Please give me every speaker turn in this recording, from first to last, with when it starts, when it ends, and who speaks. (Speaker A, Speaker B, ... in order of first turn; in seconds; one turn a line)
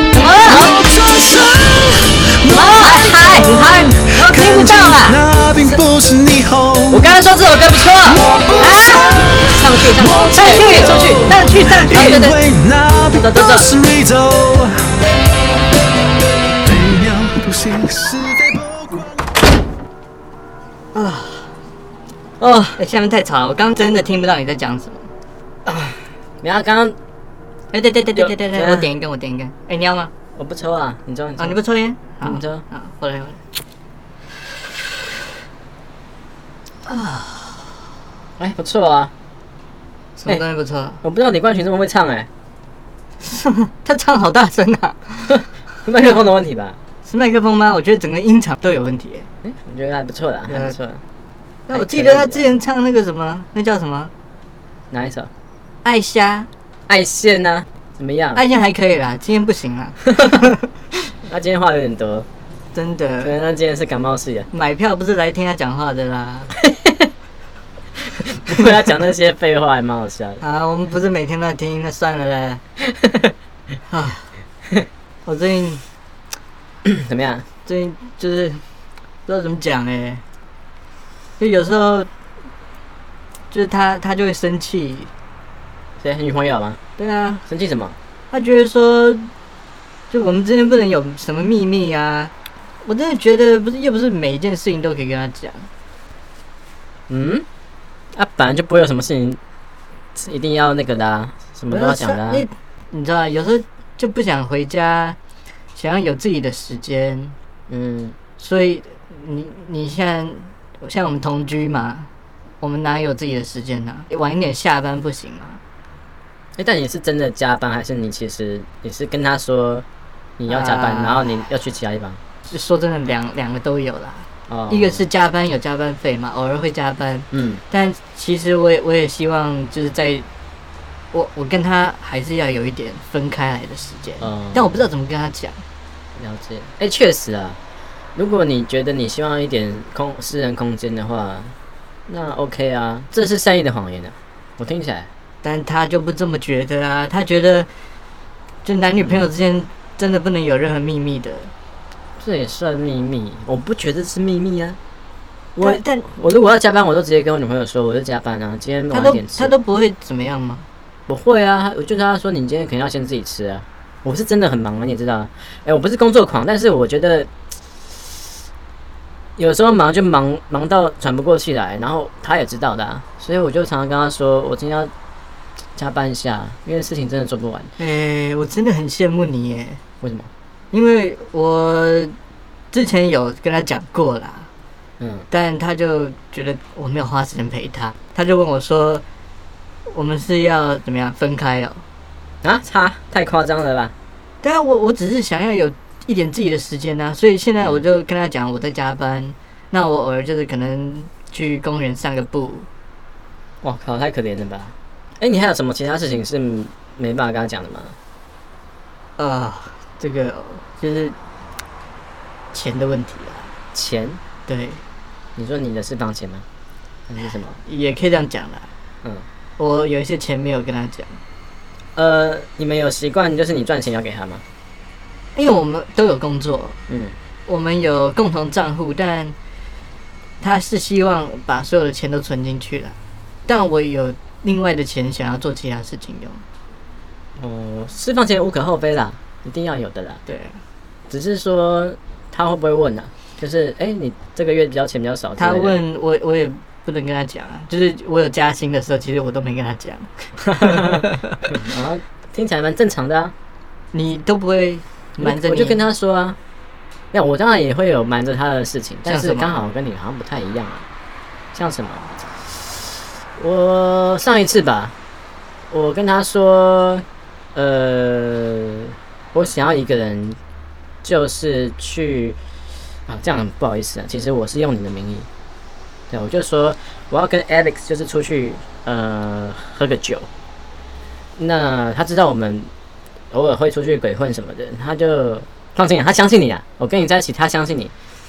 Speaker A: 0.1-0.7
Speaker B: 0.5-0.9
Speaker C: 0.6-7.1
Speaker A: 2.5-5.2
Speaker B: 2.5-5.0
Speaker B: 6.9-11.3
Speaker C: 8.1-14.9
Speaker A: 8.6-9.2
Speaker A: 10.3-12.3
Speaker B: 11.8-12.4
Speaker B: 13.1-13.7
Speaker C: 16.6-19.2
Speaker A: 20.9-21.6
Speaker B: 22.4-22.8
Speaker A: 22.8-25.1
Speaker B: 25.6-27.0
Speaker A: 27.7-30.1
Speaker B: 28.2-28.9
Speaker B: 30.4-31.6
Speaker A: 31.4-33.4
Speaker B: 32.2-32.6
Speaker A: 36.9-37.8
Speaker B: 38.4-39.1
Speaker A: 40.2-41.0
Speaker B: 41.0-42.3
Speaker A: 43.2-45.5
Speaker B: 45.4-46.8
Speaker A: 47.0-49.3
Speaker B: 49.4-51.0
Speaker A: 50.5-50.8
Speaker A: 51.7-54.1
Speaker B: 51.7-52.6
Speaker B: 54.9-55.3
Speaker A: 55.8-56.5
Speaker B: 56.9-58.4
Speaker A: 58.4-60.7
Speaker B: 61.2-62.3
Speaker A: 62.7-63.3
Speaker B: 63.2-64.5
Speaker A: 64.5-66.5
Speaker B: 66.6-67.1
Speaker B: 68.3-70.4
Speaker A: 70.4-72.6
Speaker B: 73.0-73.3
Speaker A: 73.9-74.3
Speaker A: 75.2-75.8
Speaker B: 76.8-77.5
Speaker A: 77.7-78.7
Speaker A: 79.3-80.2
Speaker A: 81.4-82.1
Speaker A: 83.5-85.1
Speaker B: 86.0-86.8
Speaker A: 87.0-87.4
Speaker B: 87.5-88.0
Speaker A: 88.3-89.3
Speaker A: 90.1-95.7
Speaker B: 97.1-97.5
Speaker B: 98.1-99.4
Speaker B: 100.2-102.5
Speaker A: 101.7-105.2
Speaker A: 105.8-107.4
Speaker B: 107.7-108.2
Speaker A: 108.4-112.1
Speaker A: 112.6-115.6
Speaker B: 116.6-119.8
Speaker B: 120.4-122.2
Speaker A: 120.5-121.3
Speaker A: 122.5-130.3
Speaker B: 124.5-125.1
Speaker B: 127.3-127.6
Speaker A: 131.1-135.6
Speaker B: 134.2-134.8
Speaker B: 136.2-137.6
Speaker B: 138.2-141.6
Speaker B: 142.1-145.1
Speaker A: 145.4-147.7
Speaker A: 148.7-151.5
Speaker B: 149.0-149.3
Speaker B: 152.2-154.8
Speaker B: 155.6-159.5
Speaker A: 155.6-156.0
Speaker A: 158.9-160.7
Speaker B: 161.1-167.3
Speaker B: 169.4-174.9
Speaker B: 175.8-177.7
Speaker A: 177.8-179.8
Speaker B: 180.0-180.3
Speaker A: 180.7-182.2
Speaker A: 182.7-184.5
Speaker B: 185.0-185.3
Speaker A: 185.3-189.0
Speaker A: 189.9-191.8
Speaker B: 192.4-193.9
Speaker A: 194.4-202.7
Speaker B: 203.6-208.0
Speaker A: 209.2-211.2
Speaker A: 212.5-213.5
Speaker B: 213.7-214.2
Speaker A: 214.5-214.8
Speaker B: 215.4-216.5
Speaker B: 217.1-217.6
Speaker A: 217.7-218.7
Speaker A: 219.6-221.2
Speaker B: 222.0-224.4
Speaker A: 225.3-226.8
Speaker B: 226.9-227.2
Speaker A: 227.5-229.4
Speaker A: 230.4-236.4
Speaker B: 237.4-240.2
Speaker A: 240.3-240.6
Speaker B: 241.1-245.8
Speaker A: 245.4-251.4
Speaker B: 250.6-253.3
Speaker A: 253.9-255.8
Speaker B: 255.2-256.4
Speaker B: 257.1-260.9
Speaker A: 259.1-259.5
Speaker B: 261.5-262.1
Speaker B: 263.4-264.9
Speaker B: 265.7-270.4
Speaker B: 271.0-272.4
Speaker B: 273.1-275.3
Speaker B: 276.1-280.3
Speaker B: 281.4-282.7
Speaker B: 283.3-287.9